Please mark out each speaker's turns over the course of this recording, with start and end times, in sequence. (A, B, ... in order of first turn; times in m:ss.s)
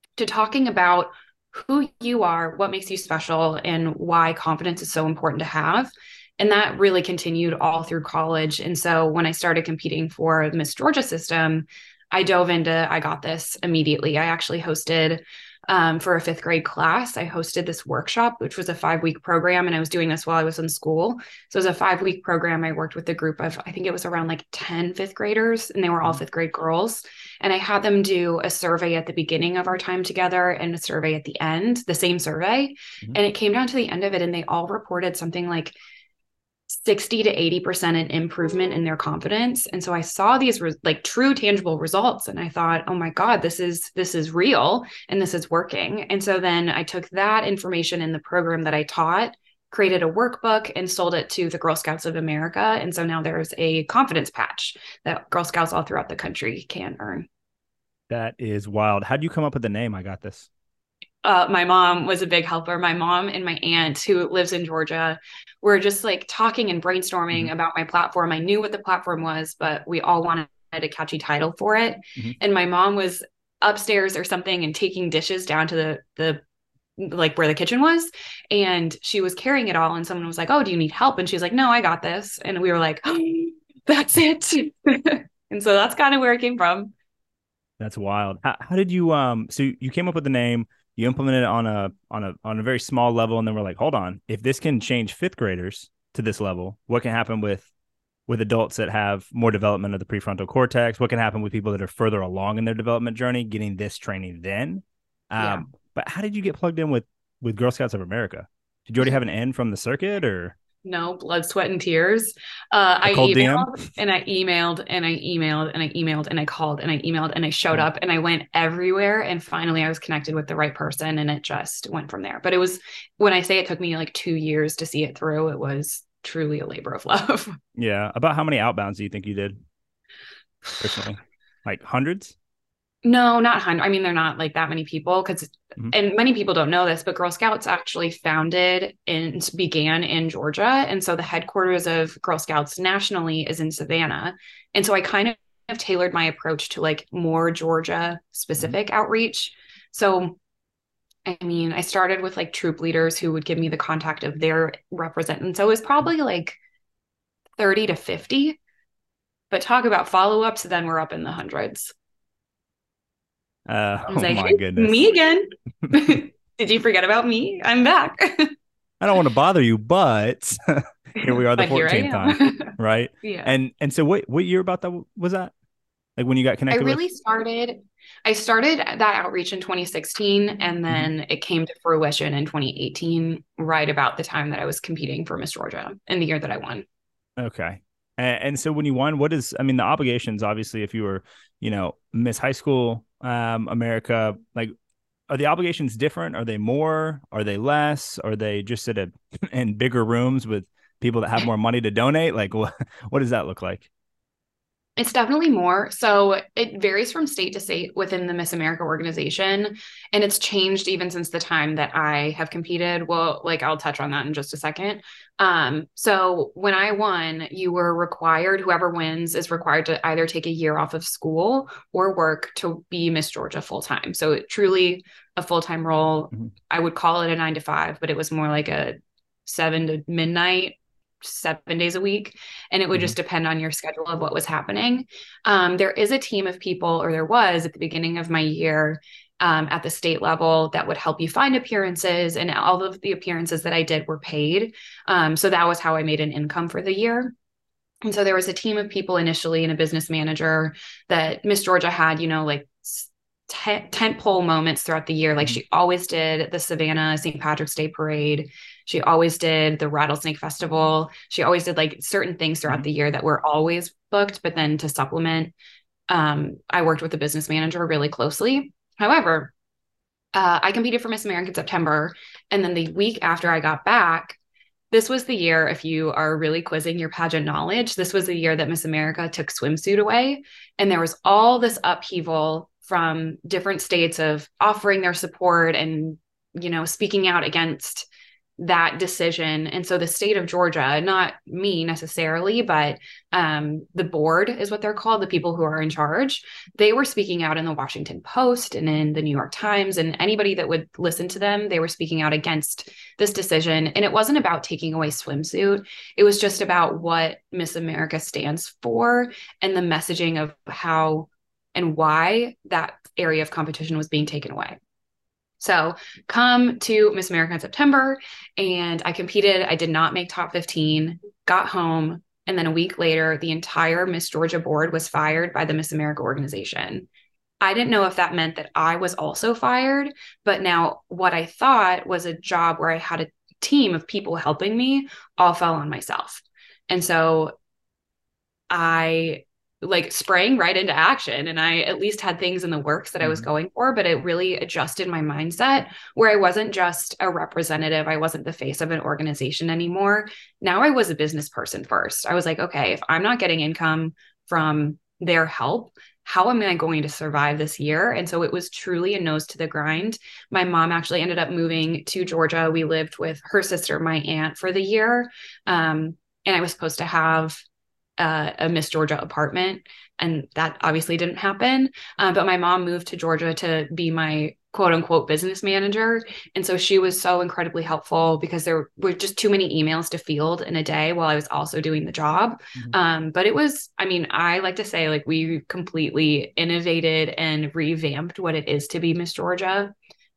0:00.2-0:35.8 A
0:36.7-0:57.3 A
0:58.1-1:00.5 B
1:01.2-1:16.4 A
1:17.0-1:26.9 A
1:27.8-1:37.7 B
1:38.3-1:50.6 B
1:50.8-2:07.6 A
1:53.1-1:53.8 B
2:07.8-2:09.6 B
2:10.8-2:12.4 B
2:13.0-2:30.4 A
2:31.3-2:36.6 A
2:37.6-2:38.6 A
2:39.5-2:41.9 A
2:43.7-2:45.0 B
2:44.1-2:48.5 A
2:45.8-2:46.2 B
2:49.0-2:55.5 B
2:51.2-2:53.5 A
2:56.2-2:57.0 B
2:56.7-3:06.8 A
3:07.4-3:14.7 B
3:15.3-3:23.9 B
3:25.0-4:07.3 A
4:08.0-4:25.5 A
4:26.1-4:29.5 A
4:30.3-4:34.4 A
4:34.9-5:14.8 A
5:15.6-5:27.1 A
5:27.6-5:37.5 A
5:38.7-6:07.6 A
5:43.2-5:43.5 B
6:08.2-6:29.9 A